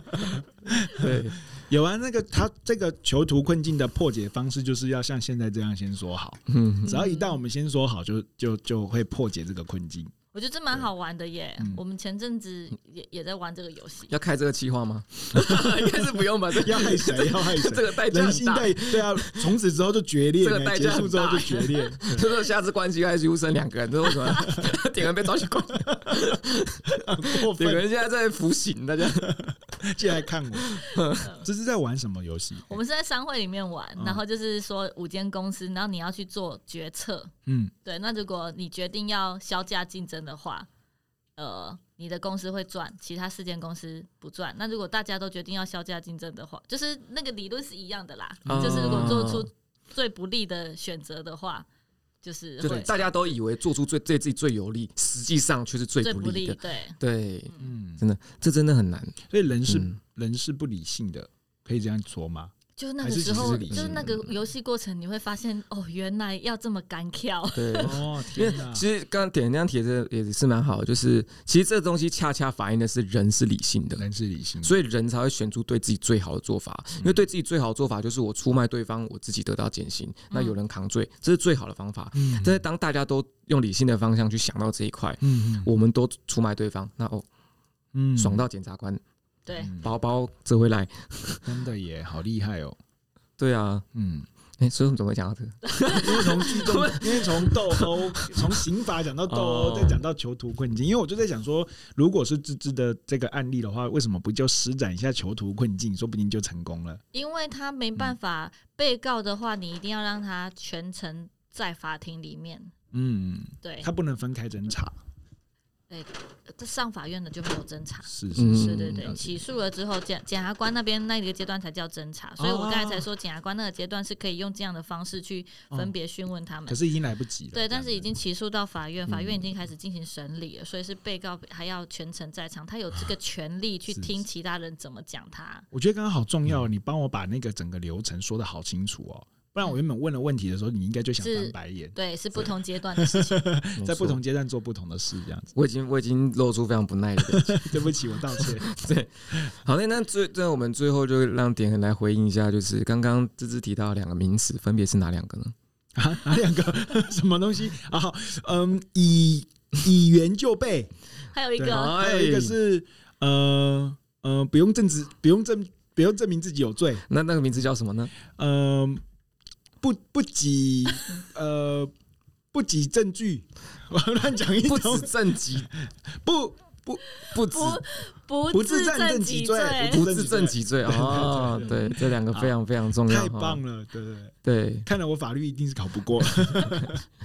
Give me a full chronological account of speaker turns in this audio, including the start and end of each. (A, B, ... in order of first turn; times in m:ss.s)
0:00.1-0:10.1 A
0:00.9-0:01.4 B
0:06.5-0:06.9 B
0:06.9-0:07.4 C
0:10.3-0:14.1 C
0:14.1-0:19.5 B
0:16.6-0:22.2 A
0:20.4-0:29.5 B
0:25.8-0:26.1 A
0:26.9-0:27.9 A
0:29.2-0:32.8 A
0:30.6-0:31.3 B
0:31.1-0:31.5 C
0:32.7-0:37.3 C
0:34.0-0:34.2 A
0:37.5-0:37.7 A
0:37.8-0:40.7 C
0:41.4-0:51.7 C
0:48.4-0:49.3 A
0:48.5-0:49.5 B
0:52.2-0:53.1 C
0:52.6-0:59.2 B
0:56.0-0:57.0 C
0:57.6-0:58.0 A
0:59.3-1:04.1 A
0:59.7-1:00.0 B
1:02.8-1:08.0 C
1:03.2-1:04.3 B
1:07.5-1:14.0 B
1:07.8-1:08.8 A
1:14.0-1:14.8 A
1:14.6-1:27.3 B
1:17.0-1:17.2 A
1:20.3-1:20.6 C
1:22.2-1:22.6 A
1:25.2-1:25.7 A
1:27.9-1:28.4 A
1:28.2-1:29.0 B
1:29.5-1:29.8 C
1:29.6-1:29.9 A
1:29.7-1:31.5 B
1:31.4-1:32.8 A
1:33.4-1:33.9 B
1:33.9-1:34.3 A
1:34.6-1:38.6 B
1:35.8-1:36.0 C
1:35.9-1:47.0 A
1:39.2-1:40.0 B
1:47.1-1:52.7 C
1:52.9-1:55.0 A
1:53.6-1:53.9 C
1:55.9-2:06.8 C
1:58.1-1:59.3 A
1:58.4-1:59.2 B
2:02.4-2:03.1 A
2:06.7-2:08.1 A
2:07.5-2:15.7 C
2:13.9-2:14.2 A
2:15.7-2:25.5 A
2:21.2-2:23.5 C
2:23.8-2:24.2 B
2:25.6-2:35.6 B
2:27.2-2:28.7 A
2:36.0-2:40.9 A
2:41.3-2:42.0 C
2:41.6-2:47.0 A
2:41.7-2:42.6 B
2:47.1-2:48.1 B
2:48.4-2:49.0 A
2:49.8-2:51.9 A
2:52.5-2:57.0 A
2:54.6-2:55.7 B
2:57.3-2:57.8 B
2:57.3-3:00.1 C
2:58.5-3:07.0 A
2:59.9-3:03.6 B
3:04.4-3:04.9 B